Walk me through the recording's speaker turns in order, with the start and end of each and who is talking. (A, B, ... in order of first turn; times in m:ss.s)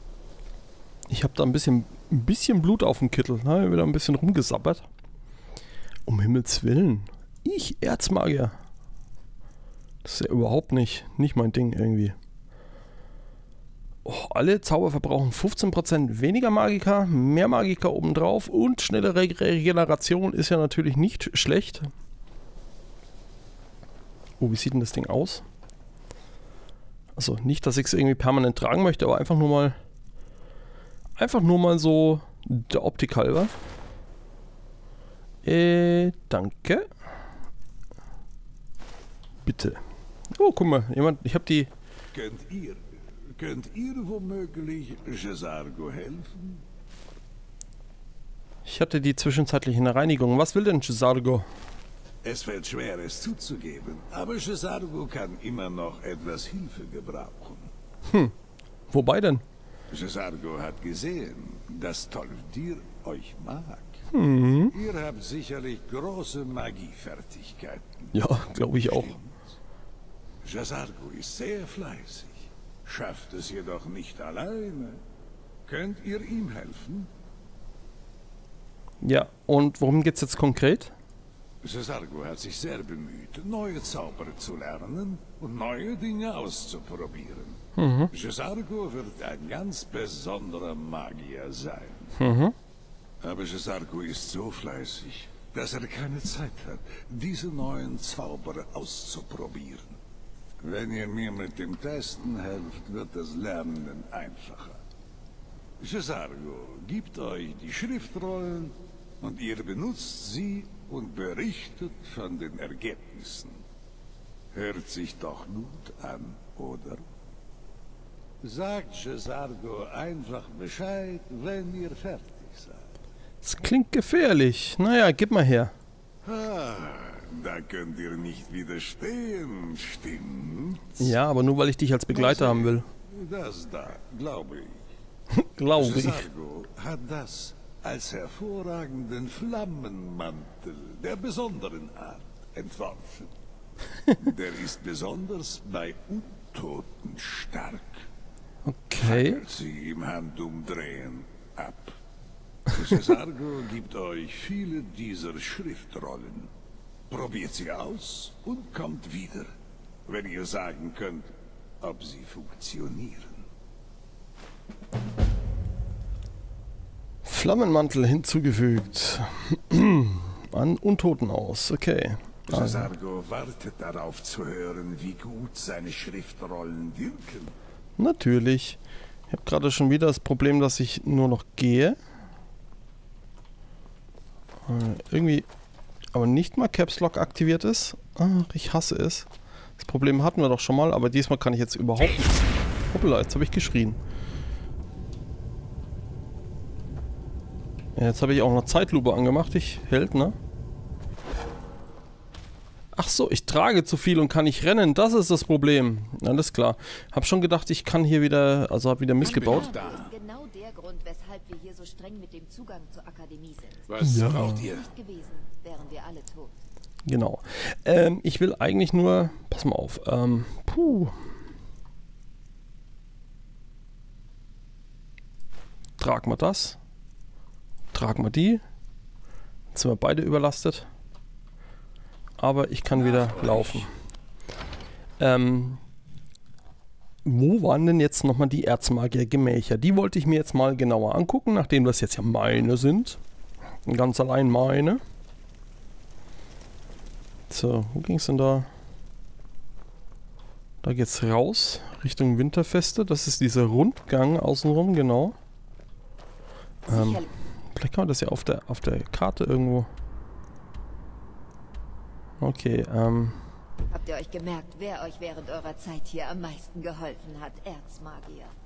0:01.1-0:04.9 A
0:06.1-0:08.6 A
0:10.0-0:12.2 A
0:14.0-0:21.9 A
0:24.4-0:25.4 A
0:27.2-0:29.8 A
0:31.2-0:33.5 A
0:35.4-0:36.9 A
0:39.4-0:39.8 A
0:40.4-0:41.7 A
0:42.1-0:42.8 B
0:43.4-0:46.6 B
0:48.7-0:51.5 A
0:52.2-0:57.7 B
0:58.1-0:58.3 A
0:58.9-0:59.4 A
0:59.9-1:04.0 B
1:04.1-1:04.8 A
1:04.7-1:08.1 B
1:08.1-1:09.2 A
1:08.8-1:09.3 B
1:10.4-1:15.0 B
1:15.7-1:17.1 B
1:19.0-1:20.9 A
1:21.6-1:27.6 B
1:27.8-1:28.1 A
1:28.1-1:32.1 B
1:32.2-1:32.6 A
1:33.2-1:40.0 B
1:40.6-1:44.8 B
1:45.8-1:53.6 B
1:54.5-1:57.0 B
1:58.4-2:02.9 B
2:03.4-2:05.7 A
2:06.2-2:11.0 B
2:11.0-2:12.9 A
2:12.1-2:14.8 B
2:15.3-2:16.3 A
2:15.8-2:23.3 B
2:24.2-2:28.0 B
2:28.7-2:29.4 A
2:29.0-2:32.0 B
2:32.7-2:36.5 B
2:37.1-2:39.5 B
2:40.1-2:41.3 B
2:41.8-2:43.5 B
2:47.2-2:52.9 A
2:52.5-2:57.6 B
2:58.0-2:58.8 A
2:59.3-3:02.0 A
3:04.7-3:05.5 A
3:06.1-3:12.3 A
3:12.9-3:14.0 A
3:18.0-3:20.4 A
3:23.0-3:29.8 A
3:29.2-3:34.0 C
3:29.2-3:30.1 B
3:33.9-3:34.9 B
3:34.0-3:34.6 A
3:34.5-3:36.5 C
3:37.1-3:41.1 A
3:46.0-3:46.8 A
3:47.9-3:48.6 A
3:49.7-3:50.9 A
3:52.4-3:53.9 A
3:53.0-3:53.9 B
3:55.2-3:55.8 A
3:57.2-4:03.2 A
4:03.9-4:05.0 A
4:07.5-4:08.7 A
4:10.8-4:15.4 A
4:16.8-4:17.3 C
4:16.9-4:19.9 A
4:22.4-4:23.4 A
4:23.9-4:28.5 C